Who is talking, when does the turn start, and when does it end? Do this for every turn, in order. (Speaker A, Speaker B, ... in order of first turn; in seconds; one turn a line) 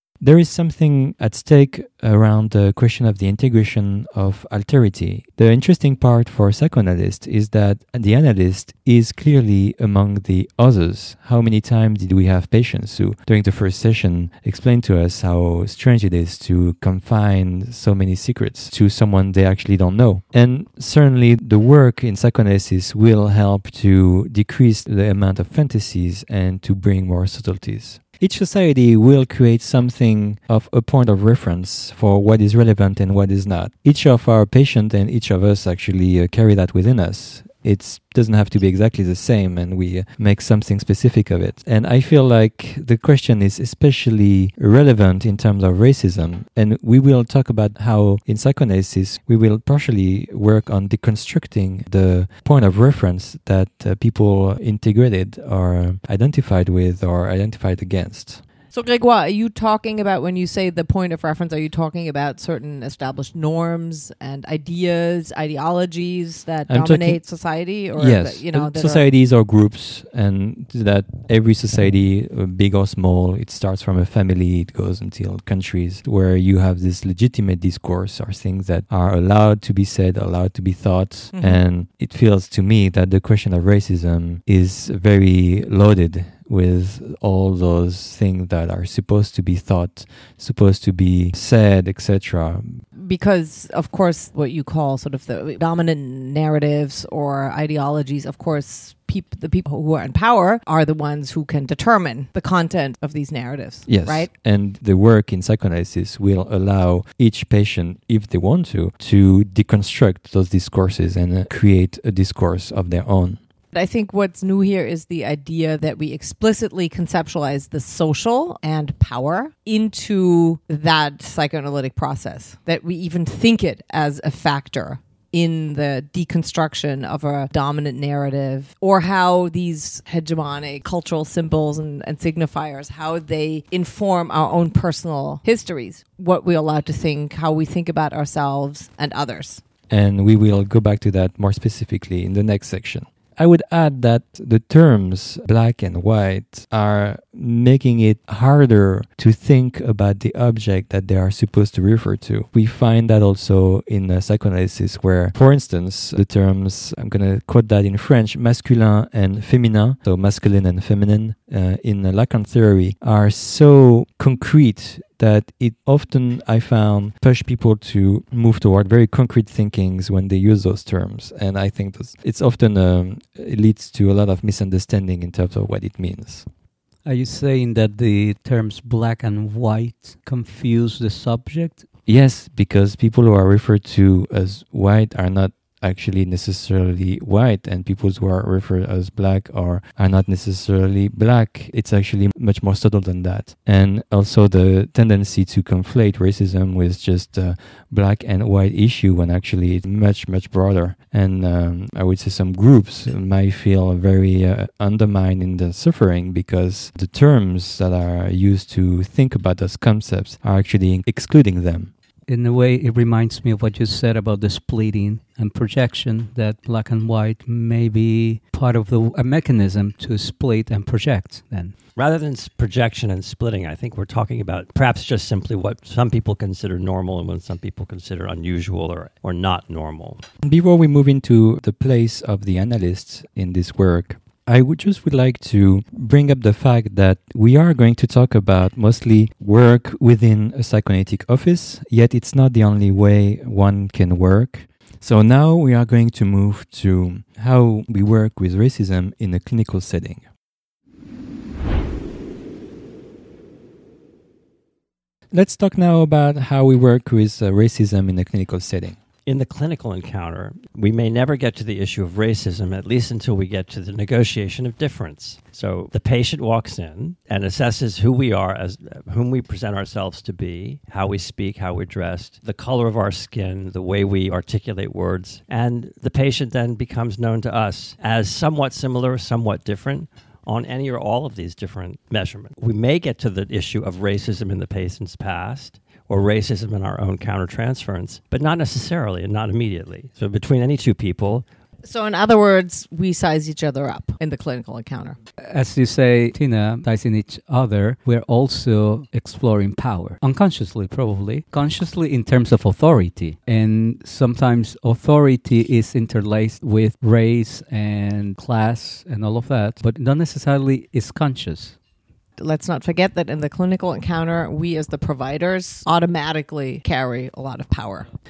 Speaker A: 0.2-58.4
Speaker B: 58.7-69.0
Speaker A: 66.7-67.2
Speaker A: 68.0-92.8
Speaker B: 81.3-81.6
Speaker B: 93.0-104.3
Speaker A: 103.9-113.4
Speaker B: 113.7-139.6
Speaker A: 139.9-176.5
Speaker C: 177.0-181.9
Speaker A: 182.1-211.9
Speaker C: 212.3-221.7
Speaker D: 222.0-230.2
Speaker A: 230.4-250.2
Speaker A: 255.3-259.0
Speaker D: 259.2-291.4
Speaker B: 291.9-295.2
Speaker C: 295.4-311.8
Speaker B: 312.4-318.1